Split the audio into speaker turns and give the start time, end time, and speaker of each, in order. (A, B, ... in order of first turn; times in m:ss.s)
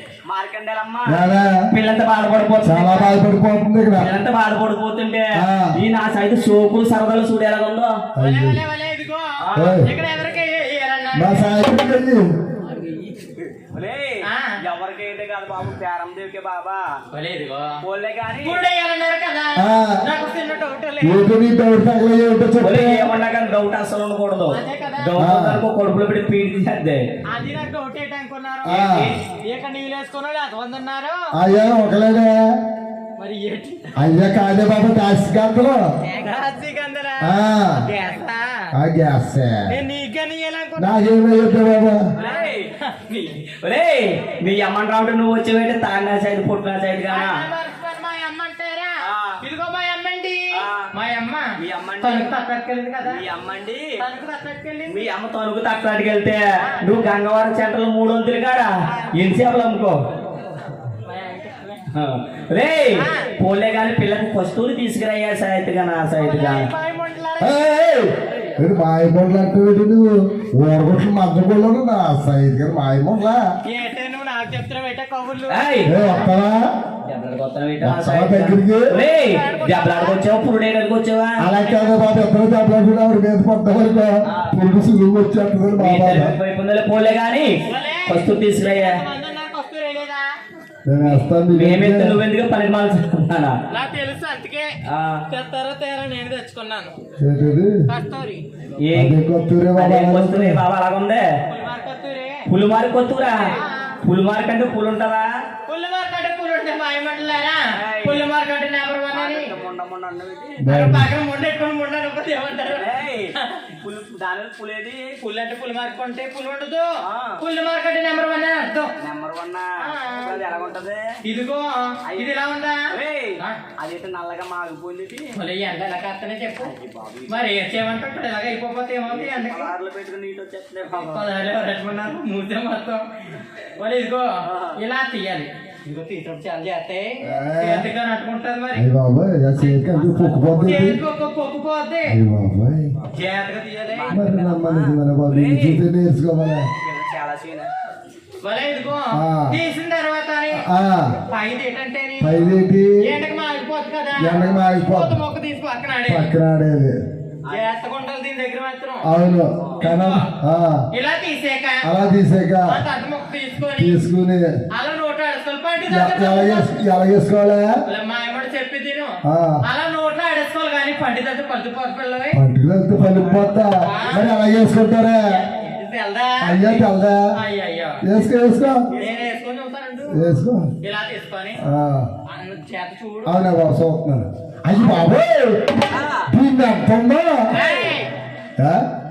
0:00.3-0:03.2 A
0:01.1-0:01.5 B
0:02.6-0:04.1 B
0:03.9-0:07.9 A
0:05.4-0:05.7 B
0:08.2-0:08.6 B
0:08.2-0:11.7 C
0:09.4-0:09.8 A
0:09.6-0:09.9 B
0:11.1-0:12.3 B
0:12.8-0:13.1 C
0:13.5-0:16.8 A
0:14.2-0:14.6 C
0:17.1-0:17.8 C
0:17.8-0:18.6 A
0:18.4-0:21.2 C
0:19.6-0:20.0 B
0:21.0-0:23.1 B
0:22.6-0:27.0 A
0:24.5-0:25.1 C
0:25.2-0:25.6 B
0:27.3-0:31.3 C
0:28.6-0:29.1 B
0:28.8-0:29.0 A
0:31.3-0:32.3 B
0:33.2-0:33.9 C
0:34.0-0:35.8 B
0:36.0-0:38.7 C
0:37.2-0:37.9 B
0:38.7-0:39.7 B
0:39.7-0:41.0 C
0:40.8-0:42.0 B
0:42.2-0:47.4 A
0:42.2-0:43.0 C
0:47.1-0:53.2 C
0:49.0-0:49.4 A
0:50.5-0:50.9 A
0:51.6-0:52.3 A
0:53.0-0:53.9 A
0:54.0-0:55.1 C
0:54.9-1:00.0 A
0:56.6-0:56.9 C
0:58.9-0:59.2 C
1:01.0-1:01.9 C
1:01.9-1:06.7 A
1:03.0-1:03.4 C
1:06.2-1:08.6 C
1:07.4-1:13.4 B
1:13.7-1:15.6 C
1:15.5-1:15.9 A
1:15.8-1:16.6 B
1:17.0-1:21.4 A
1:17.8-1:18.9 B
1:18.9-1:20.2 C
1:21.4-1:26.3 B
1:21.6-1:21.9 C
1:24.3-1:24.5 A
1:25.8-1:27.5 A
1:27.6-1:30.2 C
1:28.1-1:29.0 A
1:30.9-1:32.2 B
1:31.0-1:33.5 A
1:33.7-1:34.8 C
1:34.8-1:35.2 A
1:35.3-1:36.9 C
1:37.2-1:37.7 B
1:37.9-1:38.4 C
1:38.8-1:39.2 A
1:38.9-1:40.6 B
1:39.8-1:41.2 A
1:41.5-1:42.4 C
1:42.5-1:45.2 A
1:43.2-1:44.0 C
1:45.7-1:49.5 C
1:47.7-1:48.3 A
1:49.1-1:50.6 A
1:50.6-1:51.1 B
1:50.6-1:53.6 C
1:52.6-1:55.2 A
1:55.2-1:56.9 C
1:57.0-1:57.4 A
1:57.4-1:58.9 C
1:59.0-2:01.0 A
1:59.8-2:00.5 C
2:01.2-2:03.6 C
2:02.0-2:02.4 A
2:02.9-2:05.3 A
2:05.3-2:06.7 C
2:06.6-2:07.4 A
2:07.3-2:09.7 C
2:09.0-2:11.3 A
2:10.9-2:13.0 C
2:13.7-2:18.8 C
2:14.4-2:14.8 A
2:17.2-2:17.9 B
2:18.7-2:21.0 B
2:19.7-2:20.8 A
2:20.6-2:22.2 C
2:22.1-2:22.9 B
2:23.1-2:24.1 C
2:23.9-2:25.8 A
2:24.1-2:26.7 B
2:26.8-2:27.7 A
2:28.4-2:30.6 C
2:29.1-2:29.6 B
2:30.5-2:31.2 B
2:31.3-2:36.3 C
2:32.2-2:32.9 B
2:34.2-2:35.2 B
2:36.1-2:36.9 B
2:37.5-2:39.0 C
2:39.0-2:40.8 B
2:39.6-2:39.8 A
2:39.8-2:40.2 C
2:40.9-2:44.0 C
2:41.8-2:42.8 B
2:43.7-2:44.5 B
2:44.7-2:46.7 C
2:45.9-2:47.6 B
2:47.8-2:52.4 C
2:49.2-2:49.6 B
2:52.3-2:55.3 B
2:53.0-2:54.3 C
2:55.3-2:58.0 C
2:56.4-2:57.2 B
2:58.0-2:58.8 B
2:58.9-3:00.3 C
3:00.1-3:00.7 B
3:00.8-3:01.6 C
3:01.6-3:02.1 B
3:02.3-3:03.4 C
3:03.2-3:07.4 B
3:05.9-3:06.3 A
3:07.5-3:08.1 C
3:07.5-3:07.9 A